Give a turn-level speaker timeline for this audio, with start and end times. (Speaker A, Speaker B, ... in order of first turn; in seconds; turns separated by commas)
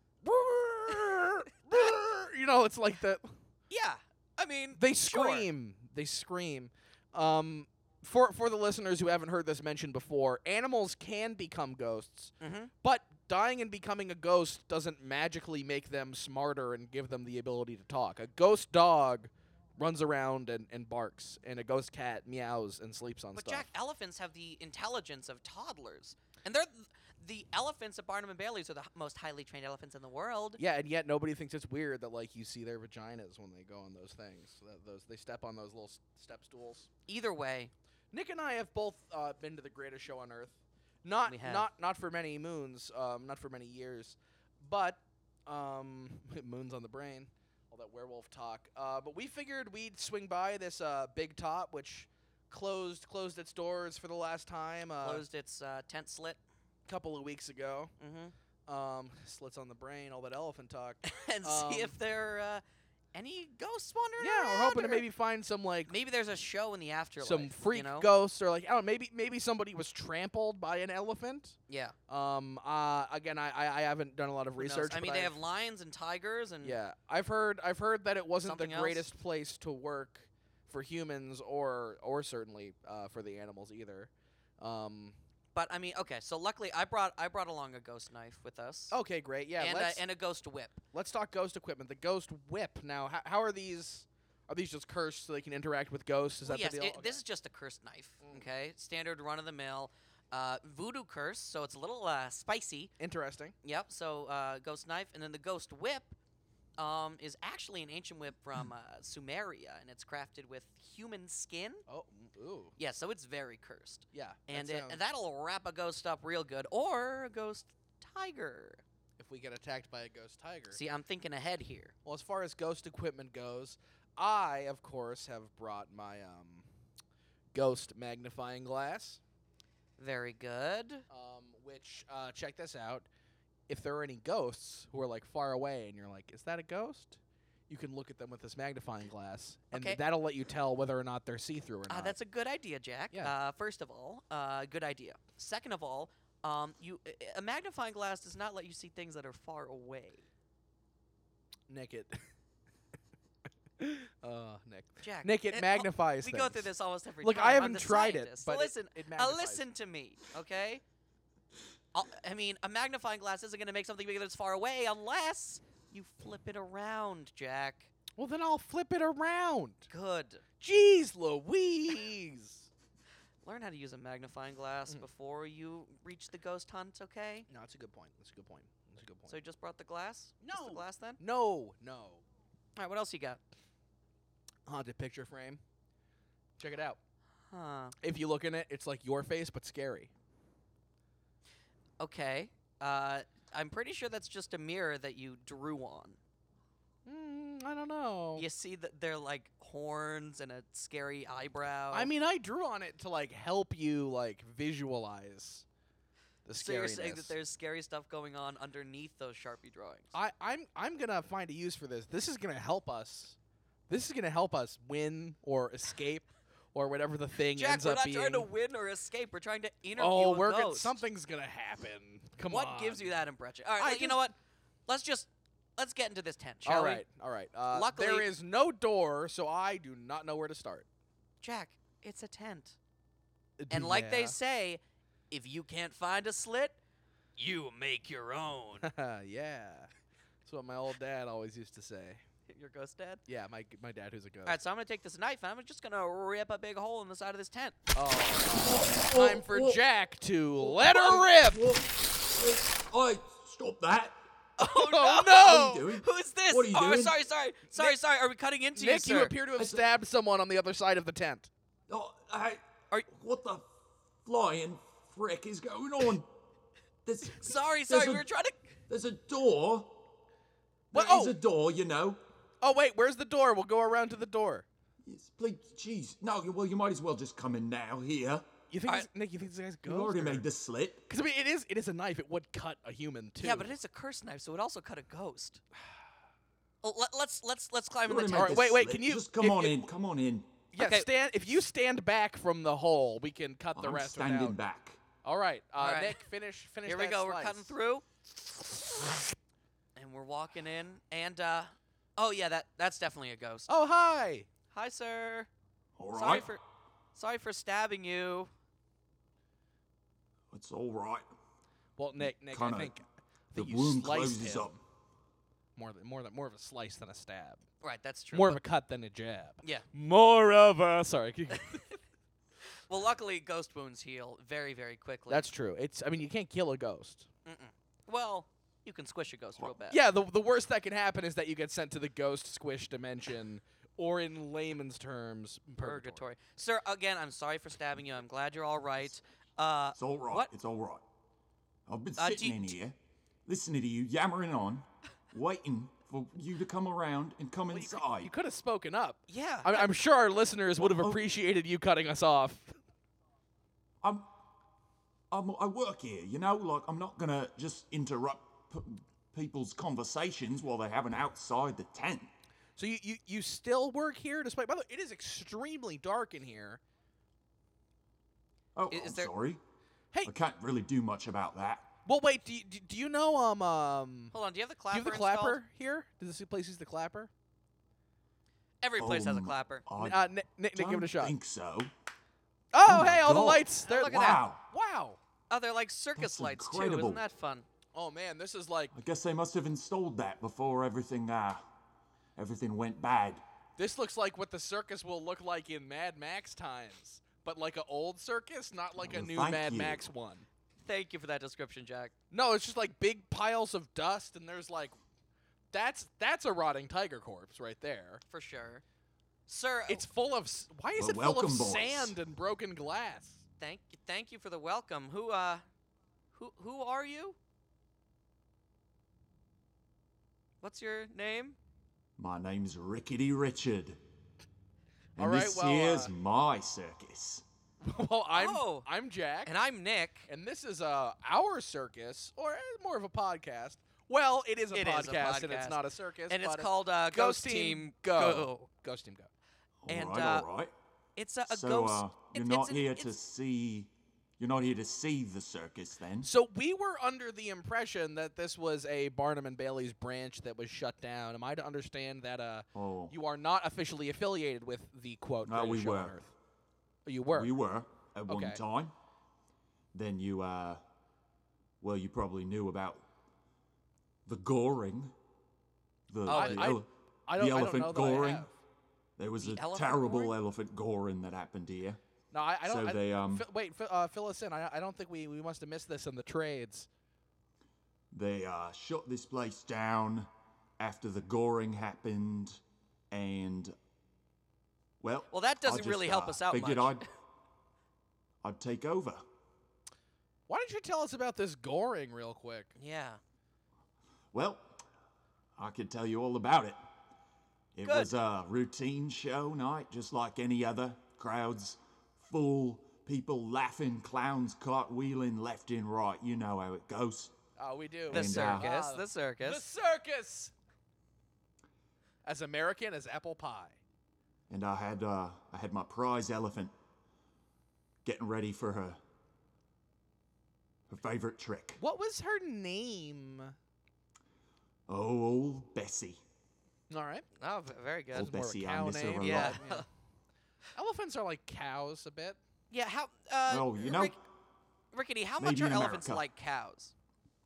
Speaker A: 0.2-3.4, Speaker B: 3.7-5.5, Speaker A: 4.8-23.7, Speaker B: 12.4-12.7, Speaker B: 23.4-30.6, Speaker A: 30.6-36.9, Speaker B: 37.1-37.7, Speaker A: 38.1-55.2, Speaker B: 41.2-41.7, Speaker B: 55.0-56.4, Speaker A: 56.9-57.9, Speaker B: 58.0-58.3, Speaker A: 58.7-62.0, Speaker B: 61.0-62.6, Speaker B: 63.1-65.0, Speaker A: 64.2-65.9, Speaker B: 65.9-68.1, Speaker A: 67.2-71.6, Speaker B: 71.7-71.9, Speaker A: 72.1-75.3, Speaker B: 74.6-76.8, Speaker A: 76.6-85.2, Speaker B: 78.4-79.1, Speaker B: 85.5-89.0, Speaker A: 88.9-90.0, Speaker B: 89.6-90.8, Speaker A: 90.9-97.2, Speaker B: 96.4-102.9, Speaker A: 103.0-103.5, Speaker B: 103.6-106.2, Speaker B: 106.8-111.8, Speaker A: 111.9-112.7, Speaker B: 112.8-118.8, Speaker A: 114.1-115.0, Speaker A: 119.2-120.8, Speaker B: 120.7-121.9, Speaker A: 122.0-126.6, Speaker A: 127.5-129.2, Speaker B: 130.0-131.0, Speaker A: 131.1-133.1, Speaker A: 133.7-142.2, Speaker B: 139.7-140.0, Speaker B: 141.9-150.2, Speaker A: 151.7-152.2, Speaker A: 153.8-156.7, Speaker B: 155.0-160.8, Speaker A: 157.2-159.6, Speaker B: 161.9-167.9, Speaker A: 168.2-169.9, Speaker B: 169.9-170.4, Speaker A: 170.6-172.7, Speaker B: 173.4-177.5, Speaker A: 177.5-179.4, Speaker B: 179.3-181.2, Speaker A: 180.4-182.2, Speaker B: 182.8-183.4, Speaker A: 184.7-185.6, Speaker A: 186.6-187.0, Speaker B: 187.5-187.9, Speaker A: 188.0-190.1, Speaker B: 192.0-196.2, Speaker A: 197.1-198.4, Speaker B: 198.3-202.1, Speaker A: 201.9-205.6, Speaker A: 206.4-207.3, Speaker B: 206.5-210.1, Speaker A: 210.1-213.3, Speaker A: 213.9-218.5, Speaker B: 217.6-221.0, Speaker A: 220.0-223.2, Speaker B: 222.5-224.3, Speaker A: 223.8-224.2, Speaker B: 224.9-227.0, Speaker A: 226.6-230.9, Speaker B: 227.7-228.3, Speaker B: 231.4-232.8, Speaker A: 233.6-234.3, Speaker B: 233.7-236.8, Speaker B: 237.4-238.9, Speaker A: 238.8-239.9, Speaker A: 240.4-242.2, Speaker B: 242.5-243.2, Speaker A: 243.3-244.6, Speaker B: 244.4-247.8, Speaker A: 247.9-251.8, Speaker C: 248.6-249.8, Speaker C: 250.6-254.2, Speaker B: 254.6-259.3, Speaker A: 254.6-255.8, Speaker C: 255.4-257.2, Speaker A: 257.7-257.9, Speaker A: 258.7-261.5, Speaker C: 259.6-259.8, Speaker C: 261.9-263.7, Speaker C: 264.2-266.3, Speaker C: 267.0-268.3, Speaker B: 267.3-268.7, Speaker C: 268.9-270.0, Speaker A: 270.9-271.4, Speaker C: 270.9-272.2, Speaker A: 272.6-274.6, Speaker C: 275.0-278.5, Speaker A: 278.7-280.5, Speaker C: 279.9-281.0, Speaker A: 281.1-283.7, Speaker B: 283.4-285.6, Speaker B: 286.8-288.6, Speaker C: 288.1-290.6, Speaker A: 288.3-289.9, Speaker A: 290.7-294.6, Speaker B: 290.7-291.1, Speaker C: 293.7-295.0, Speaker A: 295.2-297.7, Speaker B: 295.8-296.2, Speaker B: 296.9-298.0, Speaker B: 299.9-303.7, Speaker A: 303.7-304.5, Speaker B: 304.7-305.5, Speaker C: 306.0-306.5, Speaker B: 306.1-306.6, Speaker B: 307.1-308.5, Speaker C: 310.5-311.3, Speaker A: 312.0-314.8, Speaker C: 312.2-312.9, Speaker C: 313.5-314.8, Speaker A: 315.8-317.6, Speaker B: 317.8-318.6, Speaker A: 318.3-321.8, Speaker B: 322.9-325.5, Speaker A: 325.3-327.3, Speaker B: 327.4-330.0, Speaker A: 329.9-336.2, Speaker B: 335.8-340.5, Speaker C: 339.9-341.0, Speaker C: 341.9-348.3, Speaker B: 342.2-342.7, Speaker A: 347.7-352.8, Speaker B: 349.3-349.9, Speaker C: 350.8-351.2, Speaker C: 354.0-354.3, Speaker C: 355.3-362.3, Speaker A: 362.8-366.8, Speaker C: 368.7-369.6, Speaker B: 368.9-369.3, Speaker C: 370.2-371.9, Speaker A: 372.1-374.3, Speaker B: 374.3-375.6, Speaker A: 374.9-377.3, Speaker B: 378.8-379.8, Speaker C: 379.0-381.9, Speaker A: 380.0-381.3, Speaker A: 382.7-385.2, Speaker C: 382.8-384.6, Speaker B: 383.8-384.4, Speaker B: 385.5-387.7, Speaker C: 386.1-387.2, Speaker A: 387.9-388.9, Speaker C: 388.9-391.6, Speaker C: 392.4-393.4, Speaker A: 393.8-400.5, Speaker C: 399.0-400.1, Speaker B: 400.8-402.1, Speaker A: 402.3-404.9, Speaker A: 405.7-408.2, Speaker B: 408.3-408.8, Speaker B: 409.5-410.1, Speaker A: 409.9-413.4, Speaker C: 410.9-412.1, Speaker B: 413.6-415.6, Speaker B: 416.3-417.4, Speaker B: 420.6-421.6, Speaker C: 422.2-424.0, Speaker A: 425.2-426.1, Speaker C: 425.2-427.4, Speaker A: 427.8-429.5, Speaker B: 428.3-428.9, Speaker B: 429.4-430.3, Speaker A: 430.3-439.3, Speaker B: 434.7-438.7, Speaker C: 439.8-440.7, Speaker B: 439.9-440.5, Speaker B: 441.1-443.1, Speaker C: 441.4-446.3, Speaker A: 446.2-456.3, Speaker C: 452.7-453.1, Speaker C: 455.4-456.2, Speaker A: 457.1-457.5, Speaker C: 457.3-458.9, Speaker A: 458.3-458.6, Speaker C: 459.9-460.8, Speaker C: 461.8-463.0, Speaker C: 464.2-465.1, Speaker C: 466.1-468.5, Speaker B: 466.2-466.8, Speaker A: 466.3-468.5, Speaker C: 469.2-472.0, Speaker B: 469.4-470.3, Speaker A: 472.3-476.9, Speaker C: 472.6-473.5, Speaker C: 478.1-482.6, Speaker C: 483.1-483.8, Speaker C: 485.0-487.0, Speaker B: 485.3-487.0, Speaker C: 488.4-489.2, Speaker A: 490.5-492.7, Speaker B: 492.8-493.2, Speaker C: 494.3-494.8, Speaker C: 495.6-496.8, Speaker C: 497.7-507.3, Speaker B: 497.8-498.1, Speaker A: 507.6-510.5, Speaker C: 508.1-508.7, Speaker B: 508.1-509.6, Speaker A: 512.2-513.8, Speaker C: 514.5-516.7, Speaker C: 518.0-519.0, Speaker C: 520.9-521.8, Speaker A: 521.8-523.5, Speaker C: 524.9-526.2, Speaker A: 526.9-527.2, Speaker B: 527.4-528.3, Speaker C: 528.1-529.6, Speaker A: 528.1-529.9, Speaker B: 529.2-529.9, Speaker A: 530.7-532.4, Speaker B: 532.7-534.2, Speaker C: 533.5-534.2, Speaker B: 534.9-536.9, Speaker C: 535.4-536.2